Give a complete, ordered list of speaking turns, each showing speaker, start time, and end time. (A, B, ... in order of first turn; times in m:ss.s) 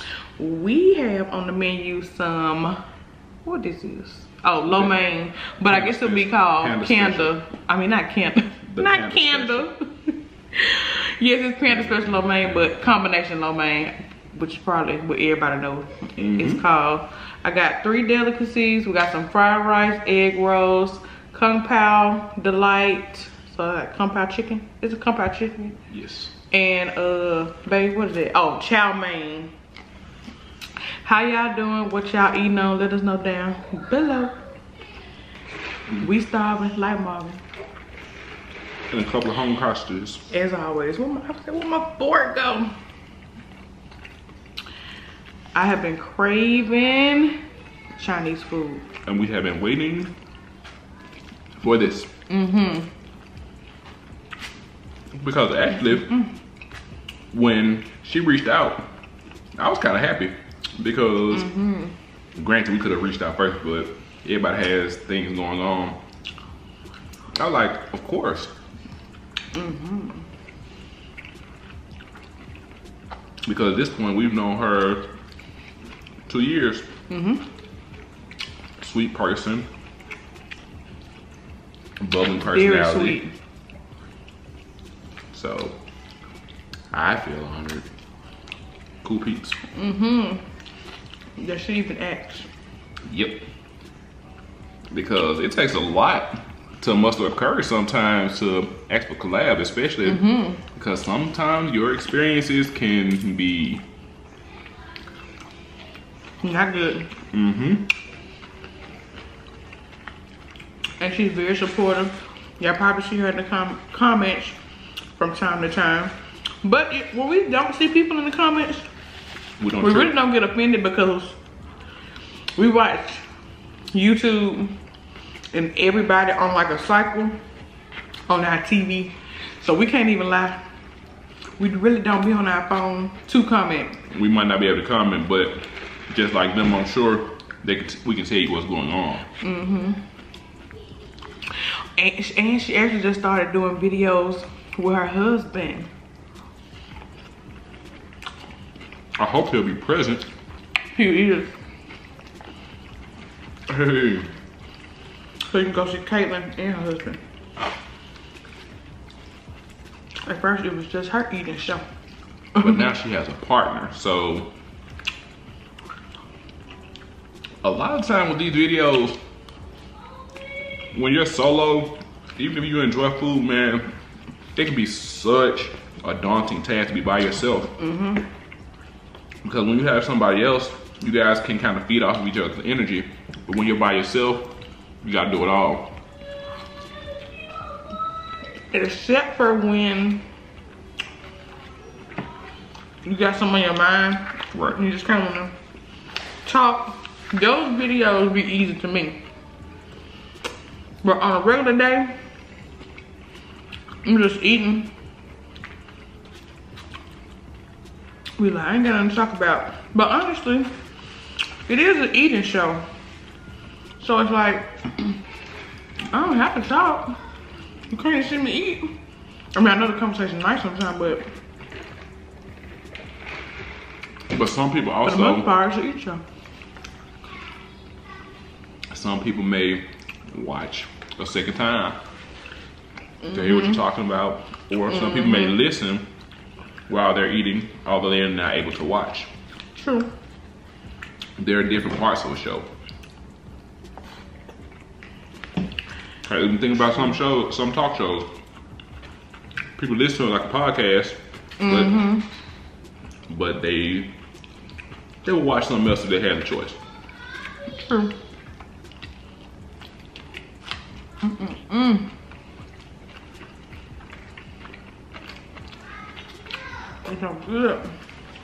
0:00.4-0:02.8 A
0:03.4-0:25.8 A
0:04.7-0:05.0 B
0:05.6-0:07.3 B
0:08.7-0:09.7 B
0:11.7-0:13.0 B
0:16.2-0:16.6 B
0:25.9-0:26.3 B
0:26.5-0:29.5 A
0:31.0-0:34.4 A
0:36.0-0:37.4 A
0:38.9-0:40.3 B
0:40.3-0:42.7 A
0:45.5-0:47.4 A
0:48.0-0:48.9 A
0:49.0-0:50.1 B
0:51.6-0:52.1 B
0:52.3-0:52.9 A
0:55.1-0:56.1 B
0:55.7-0:56.3 A
0:57.3-0:58.8 B
0:59.6-1:01.5 B
1:01.3-1:02.0 A
1:02.4-1:06.0 B
1:07.4-1:08.5 B
1:09.5-1:10.2 A
1:13.4-1:15.0 B
1:16.3-1:16.9 B
1:17.1-1:17.4 A
1:18.8-1:19.7 B
1:22.0-1:23.2 B
1:22.4-1:23.3 A
1:25.3-1:25.8 B
1:26.9-1:27.9 B
1:29.0-1:29.6 B
1:29.7-1:30.4 A
1:31.4-1:32.5 A
1:33.1-1:33.4 B
1:34.9-1:43.8 B
1:40.0-1:40.6 A
1:46.4-1:47.1 A
1:47.3-1:47.9 B
1:51.0-1:54.6 A
1:55.2-1:58.9 A
1:59.6-2:00.1 B
1:59.8-2:01.4 A
2:02.6-2:03.2 A
2:03.9-2:04.7 A
2:05.5-2:07.4 A
2:08.3-2:10.6 A
2:11.6-2:14.0 A
2:14.1-2:19.3 B
2:19.4-2:20.0 A
2:22.0-2:25.9 A
2:29.2-2:30.3 B
2:30.9-2:31.5 A
2:33.7-2:34.3 B
2:35.5-2:37.2 A
2:40.3-2:41.9 A
2:42.6-2:42.9 A
2:42.6-2:44.5 B
2:47.6-2:49.2 B
2:50.9-2:53.9 B
2:54.6-2:57.7 B
2:57.8-2:58.3 A
2:59.4-3:06.0 B
3:08.7-3:10.2 A
3:13.0-3:15.5 A
3:16.4-3:19.2 A
3:21.0-3:22.1 A
3:24.0-3:24.9 A
3:28.4-3:30.7 A
3:31.7-3:32.8 A
3:34.0-3:35.1 A
3:36.1-3:37.2 A
3:37.9-3:38.9 A
3:39.5-3:41.2 A
3:44.3-3:45.5 B
3:45.0-3:46.2 A
3:48.9-3:52.0 B
3:53.2-3:53.8 A
3:53.3-3:56.1 B
3:54.9-3:55.6 A
3:56.9-3:59.3 B
3:59.8-4:00.1 A
4:01.4-4:02.7 B
4:06.2-4:08.3 B
4:09.8-4:12.0 B
4:11.6-4:12.3 A
4:13.3-4:14.1 B
4:15.2-4:16.8 B
4:17.7-4:18.1 A
4:21.2-4:22.1 A
4:27.0-4:27.9 A